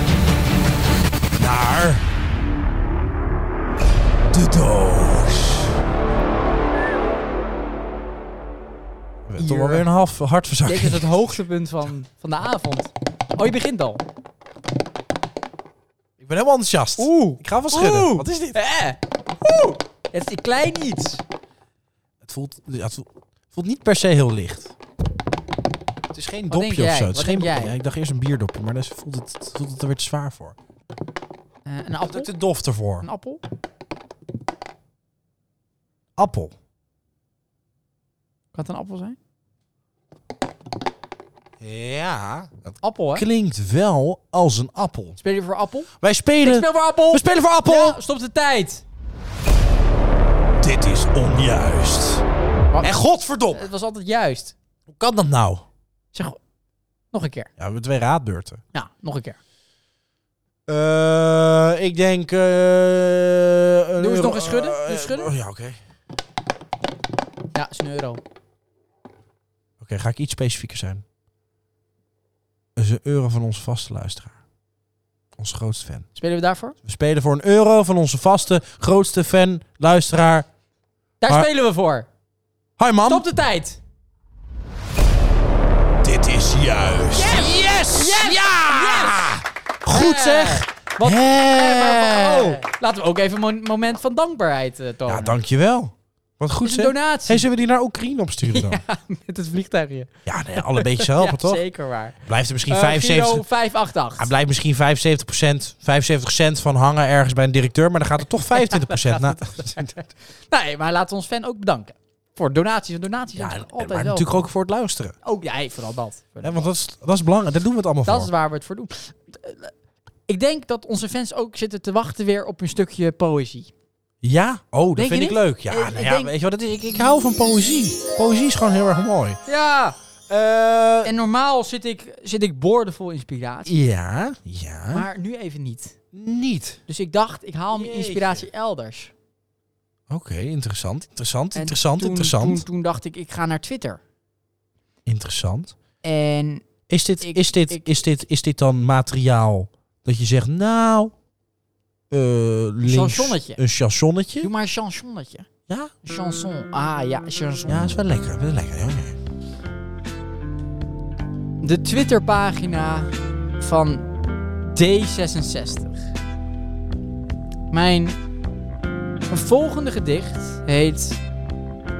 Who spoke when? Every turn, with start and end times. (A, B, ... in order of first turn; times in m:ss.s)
0:01.4-0:02.0 A
0:04.3-0:05.8 A
0:09.2-0:11.1 A
0:09.4-0:09.8 B
0:10.6-0:14.0 B
0:16.2-0:18.6 A
0:17.0-0:21.2 B
0:22.2-0:24.7 A
0:26.1-0:30.6 A
0:26.5-0:27.8 B
0:31.6-0:32.3 B
0:32.1-0:33.0 A
0:33.0-0:33.4 B
0:36.2-0:36.5 A
0:38.5-0:39.2 B
0:41.6-0:45.2 A
0:42.8-0:43.2 B
0:45.2-0:45.9 B
0:46.0-0:48.0 A
0:46.4-0:48.8 B
0:50.6-0:52.2 A
0:52.7-0:53.0 B
0:52.8-0:53.7 A
0:53.5-0:54.5 B
0:54.9-0:55.6 A
0:57.1-0:57.5 B
0:57.6-0:58.6 A
0:58.7-0:59.4 B
1:00.7-1:05.8 A
1:04.0-1:05.3 B
1:07.5-1:08.2 B
1:09.8-1:11.0 A
1:12.8-1:14.4 A
1:15.4-1:16.1 A
1:16.1-1:16.8 B
1:16.8-1:20.5 A
1:21.2-1:22.1 B
1:22.8-1:23.2 A
1:23.0-1:23.8 B
1:26.0-1:32.6 A
1:27.1-1:29.4 B
1:29.9-1:35.4 B
1:35.1-1:38.8 A
1:36.6-1:37.4 B
1:38.5-1:42.2 B
1:40.2-1:41.6 A
1:42.2-1:43.4 A
1:42.7-1:44.3 B
1:44.2-1:49.9 A
1:48.5-1:54.3 B
1:53.4-1:55.2 A
1:55.2-1:56.7 B
1:56.4-1:58.3 A
1:58.0-1:59.7 B
2:00.3-2:03.7 B
2:04.2-2:09.4 A
2:05.0-2:06.3 B
2:09.4-2:10.0 B
2:10.3-2:11.1 A
2:11.0-2:13.7 B
2:13.7-2:15.1 A
2:14.9-2:15.9 B
2:16.1-2:16.8 A
2:16.9-2:19.1 B
2:17.7-2:18.5 A
2:20.1-2:22.6 A
2:21.5-2:24.0 B
2:25.0-2:25.8 A
2:26.0-2:26.7 B
2:26.9-2:31.1 A
2:27.2-2:27.8 B
2:32.1-2:34.5 A
2:32.8-2:33.6 B
2:34.4-2:35.5 B
2:36.0-2:38.0 B
2:37.7-2:39.2 A
2:41.6-2:44.1 B
2:44.6-2:46.1 B
2:47.7-2:48.2 B
2:49.3-2:51.2 B